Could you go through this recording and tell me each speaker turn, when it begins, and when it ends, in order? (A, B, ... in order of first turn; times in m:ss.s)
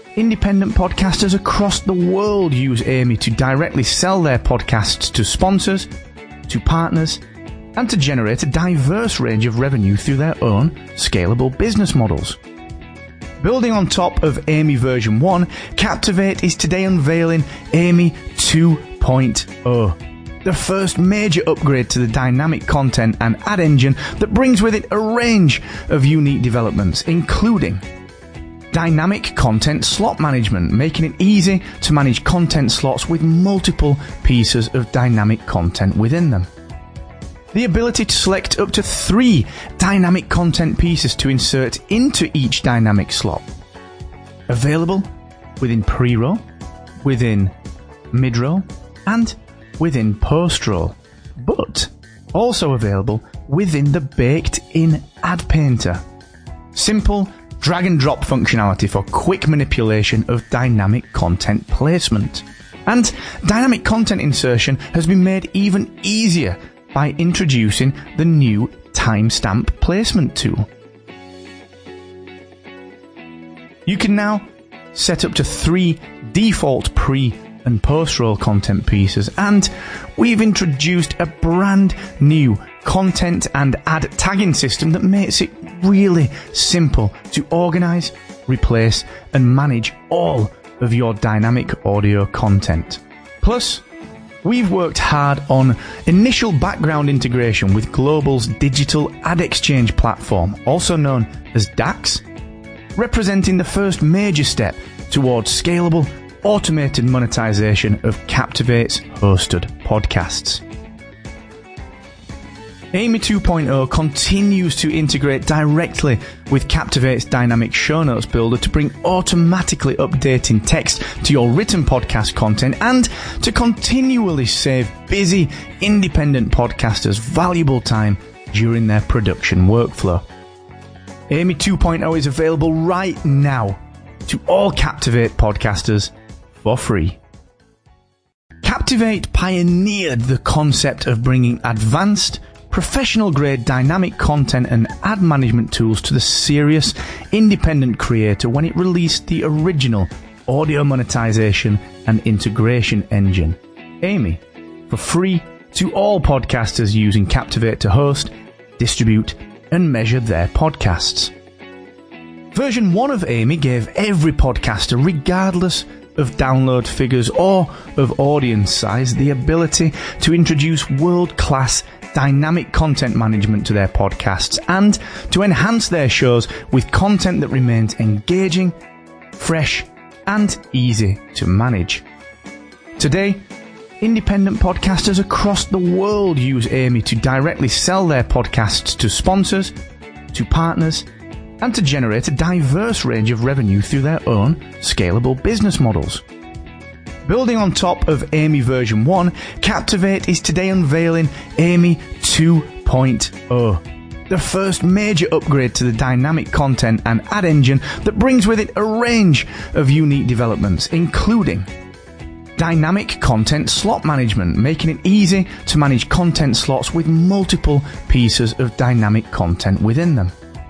0:00.2-0:05.9 A
0:06.5-0:07.2 A
0:07.8-0:12.4 A
0:13.4-0:27.8 A
0:28.7-0:36.5 A
0:37.5-0:43.4 A
0:44.5-0:46.4 A
0:47.0-0:47.5 A
0:48.1-0:56.0 A
0:56.7-1:10.7 A
1:13.8-1:33.8 A
1:34.4-1:42.2 A
1:42.9-1:50.6 A
1:52.9-2:10.2 A
2:11.3-2:17.2 A
2:18.6-2:41.3 A
2:42.5-2:58.8 A
2:59.4-3:02.0 A
3:03.0-3:03.4 A
3:04.0-3:09.7 A
3:10.3-3:11.1 A
3:11.6-3:16.2 A
3:17.2-3:31.7 A
3:32.6-3:40.3 A